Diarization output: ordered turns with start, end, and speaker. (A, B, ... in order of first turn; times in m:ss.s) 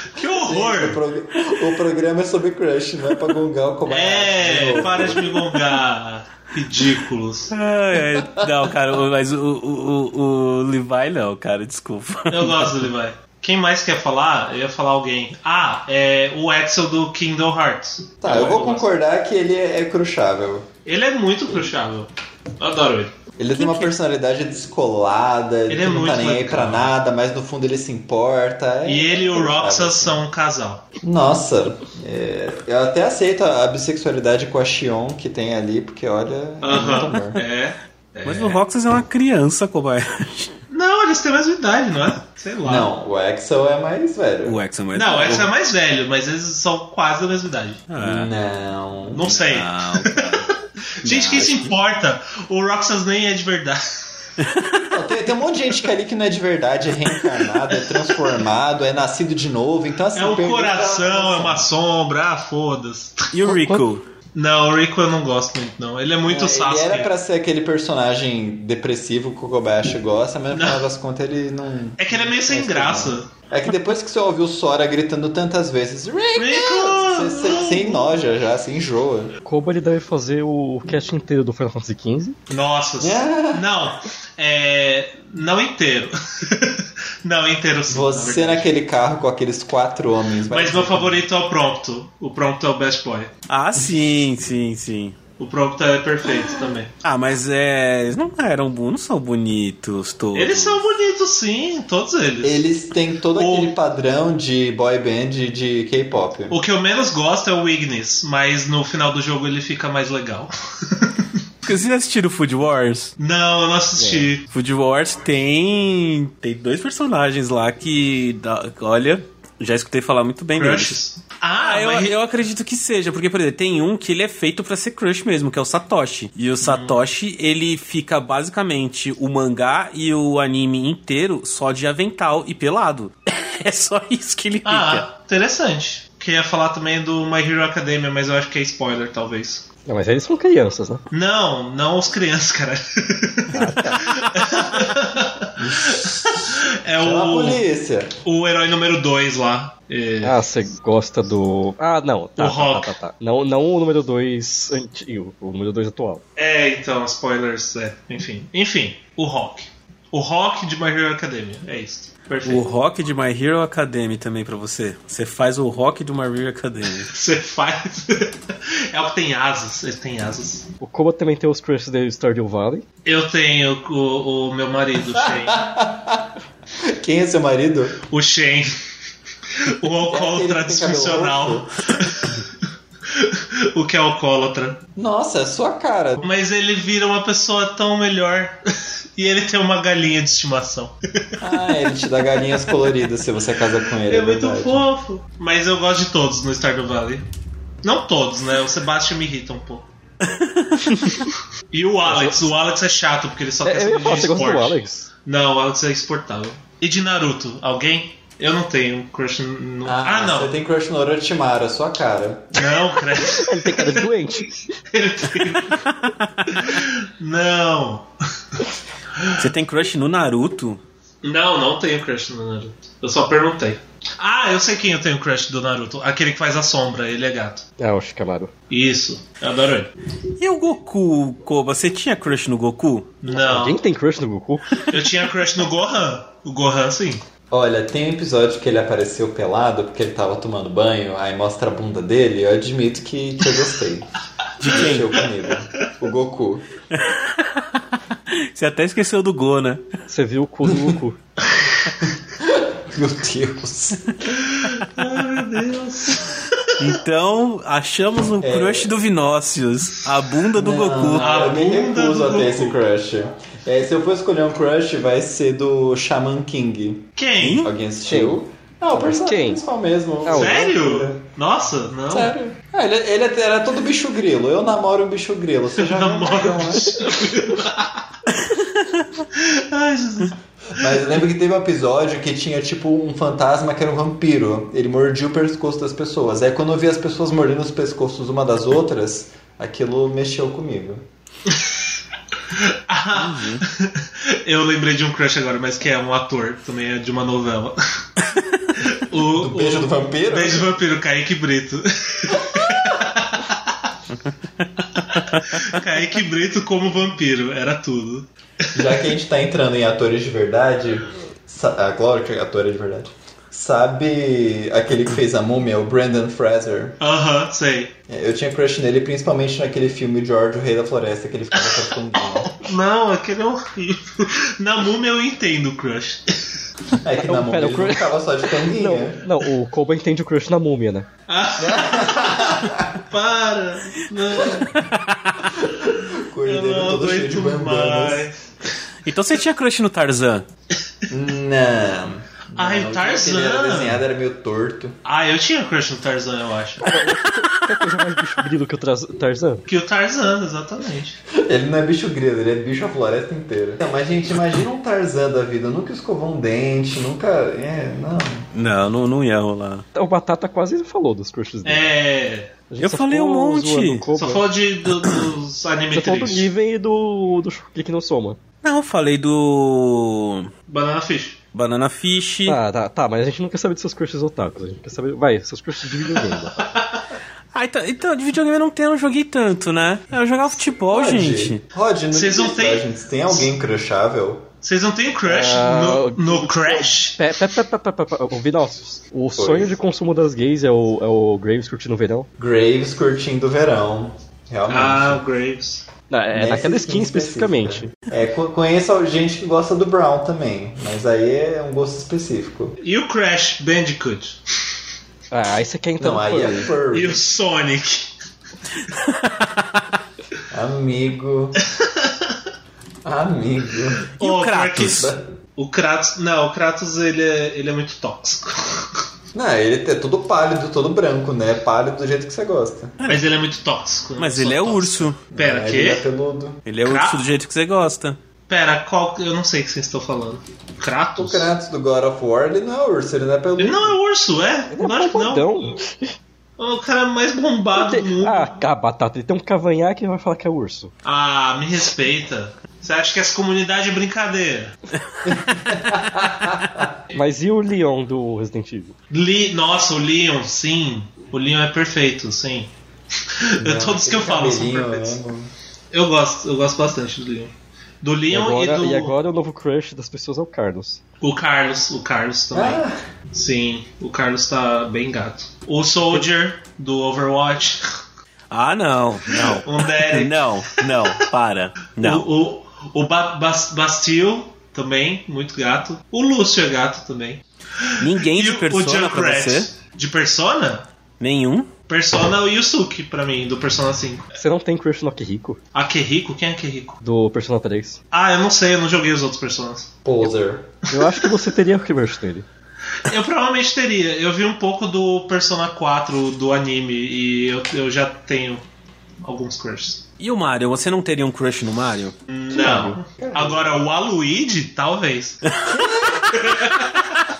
0:00.1-0:01.0 A
0:00.4-0:05.3 B
0:03.9-0:07.5 A
0:07.5-0:12.9 C
0:08.1-0:08.5 B
0:12.3-0:18.9 A
0:18.2-0:20.7 B
0:20.8-0:23.1 A
0:23.4-0:30.2 B
0:23.5-0:23.9 C
0:25.7-0:26.9 A
0:28.8-0:30.8 A
0:31.0-0:37.4 B
0:36.6-0:38.6 A
0:36.8-0:37.2 C
0:38.2-0:40.5 C
0:40.7-0:42.9 A
0:42.6-0:44.6 B
0:44.4-0:45.5 C
0:44.9-0:47.8 A
0:47.9-0:48.3 C
0:48.0-0:49.3 B
0:49.1-0:50.4 A
0:49.2-0:50.5 C
0:51.0-0:53.8 A
0:51.0-0:51.7 C
0:54.4-0:54.9 C
0:54.8-1:01.7 B
1:00.1-1:03.4 A
1:03.3-1:04.0 C
1:03.4-1:03.8 D
1:04.3-1:07.1 A
1:06.2-1:19.3 B
1:10.5-1:10.8 A
1:12.0-1:13.3 A
1:16.4-1:18.1 A
1:19.4-1:22.4 D
1:22.5-1:28.7 A
1:23.0-1:23.7 B
1:27.9-1:31.2 B
1:30.5-1:33.3 A
1:33.5-1:35.2 C
1:35.4-1:36.9 A
1:37.0-1:40.9 C
1:40.3-1:42.7 A
1:42.4-1:46.6 B
1:43.3-1:43.7 A
1:46.5-1:51.3 A
1:51.6-1:53.1 C
1:53.2-1:54.4 A
1:54.0-1:54.3 D
1:54.5-2:01.0 C
2:00.6-2:02.1 A
2:01.6-2:15.0 C
2:06.6-2:07.0 A
2:14.6-2:19.6 A
2:19.9-2:21.0 D
2:21.1-2:27.6 A
2:23.5-2:24.1 D
2:25.6-2:28.1 B
2:28.2-2:30.4 A
2:30.2-2:36.2 D
2:32.4-2:32.9 A
2:36.4-2:42.6 A
2:42.4-2:47.1 C
2:47.0-2:50.7 A
2:50.8-2:52.8 D
2:53.0-2:55.6 A
2:55.1-2:56.3 B
2:56.8-2:58.0 B
2:58.1-2:58.7 A
2:59.6-3:02.4 A
3:00.1-3:01.8 B
3:03.1-3:04.8 A
3:05.0-3:06.2 B
3:06.2-3:08.6 A
3:09.2-3:11.4 A
3:11.4-3:14.8 B
3:14.0-3:17.2 A
3:17.8-3:19.9 A
3:20.2-3:20.9 C
3:21.7-3:30.5 A
3:22.0-3:22.5 D
3:23.6-3:25.1 D
3:29.8-3:32.9 B
3:32.5-3:34.1 A
3:33.2-3:34.7 D
3:34.9-3:35.8 A
3:35.7-3:36.7 C
3:36.5-3:38.6 A
3:39.4-3:40.8 C
3:41.2-3:47.6 A
3:47.8-3:48.5 D
3:48.7-3:49.9 A
3:50.4-3:53.2 C
3:53.2-3:53.8 A
3:53.3-3:55.0 D
3:54.8-3:57.2 A
3:57.5-4:04.1 B
4:04.6-4:05.2 C
4:04.6-4:06.6 B
4:06.9-4:09.8 C
4:10.1-4:11.2 D
4:12.1-4:14.3 B
4:14.3-4:16.9 A
4:16.8-4:21.3 C
4:18.4-4:18.9 B
4:20.6-4:31.2 B
4:21.1-4:22.8 A
4:27.2-4:27.7 A
4:27.4-4:27.7 C
4:28.1-4:28.4 D
4:28.9-4:29.6 D
4:30.2-4:30.7 D
4:30.2-4:32.3 A
4:32.1-4:37.2 B
4:35.8-4:38.0 A
4:38.4-4:39.2 C
4:39.3-4:41.0 A
4:40.7-4:51.0 B
4:52.5-4:57.8 A
4:53.1-4:53.6 C
4:58.2-4:58.7 C
4:58.8-5:03.7 A
4:59.4-5:00.7 B
5:04.2-5:05.8 C
5:05.0-5:08.3 A
5:08.7-5:17.0 B
5:17.0-5:17.9 A
5:18.1-5:22.6 B
5:22.3-5:26.6 A
5:27.0-5:29.2 B
5:27.2-5:31.1 D
5:31.3-5:34.7 A
5:31.6-5:33.0 B
5:34.7-5:35.5 C
5:35.5-5:38.3 B
5:36.4-5:38.4 A
5:39.0-5:40.5 C
5:41.1-5:44.9 B
5:42.6-5:44.0 A
5:45.0-5:46.9 A
5:46.8-5:49.6 D
5:49.7-5:51.2 A
5:51.4-5:58.4 B
5:58.5-5:59.8 C
5:59.9-6:01.9 D
6:01.6-6:02.5 A
6:02.7-6:04.4 D
6:02.8-6:04.1 C
6:04.2-6:06.5 A
6:05.9-6:08.4 D
6:08.6-6:10.5 C
6:10.7-6:11.4 A
6:11.5-6:12.6 C
6:12.4-6:16.8 D
6:16.7-6:17.0 A
6:17.5-6:21.6 C
6:20.9-6:24.5 B
6:22.1-6:23.5 A
6:24.6-6:27.3 A
6:25.2-6:32.3 D
6:29.4-6:29.7 B
6:32.4-6:35.2 B
6:34.7-6:35.8 A
6:36.1-6:37.9 D
6:36.3-6:42.8 B
6:42.8-6:44.4 A
6:45.3-6:46.7 D
6:46.0-6:47.2 B
6:46.9-6:48.1 A
6:48.9-6:50.0 C
6:50.5-6:51.6 B
6:51.8-6:52.1 A
6:53.0-6:54.0 B
6:54.1-6:59.0 A
6:54.2-6:55.1 C
6:54.9-6:55.2 B
6:59.3-7:02.9 B
7:03.0-7:03.3 C
7:03.1-7:06.0 A
7:04.2-7:05.2 C
7:05.3-7:06.6 B
7:06.6-7:08.2 C
7:06.8-7:07.2 A
7:08.5-7:11.5 A
7:11.2-7:14.0 B
7:13.6-7:15.5 A
7:14.7-7:16.1 D
7:16.6-7:18.6 A
7:17.7-7:20.9 D
7:21.0-7:24.7 A
7:25.0-7:25.4 C
7:25.2-7:26.9 B
7:27.1-7:29.0 D
7:29.1-7:32.7 A
7:33.3-7:35.2 A
7:33.6-7:35.5 B
7:35.9-7:39.1 A
7:38.3-7:41.0 D
7:41.2-7:47.8 A
7:42.5-7:43.0 B
7:48.5-7:52.3 C
7:49.3-7:51.1 A
7:52.0-8:00.9 A
7:58.0-7:59.7 C
8:01.2-8:01.7 C
8:01.9-8:04.3 A
8:04.4-8:05.6 D
8:05.7-8:07.0 A
8:07.0-8:08.0 D
8:08.1-8:09.9 A
8:10.0-8:10.6 B
8:10.9-8:12.4 D
8:11.0-8:11.3 A
8:13.0-8:18.6 A
8:19.2-8:20.0 A
8:20.2-8:22.1 C
8:22.3-8:25.4 A
8:22.6-8:22.9 D
8:23.1-8:23.7 B
8:25.5-8:26.2 C
8:25.7-8:26.3 B
8:26.3-8:27.1 A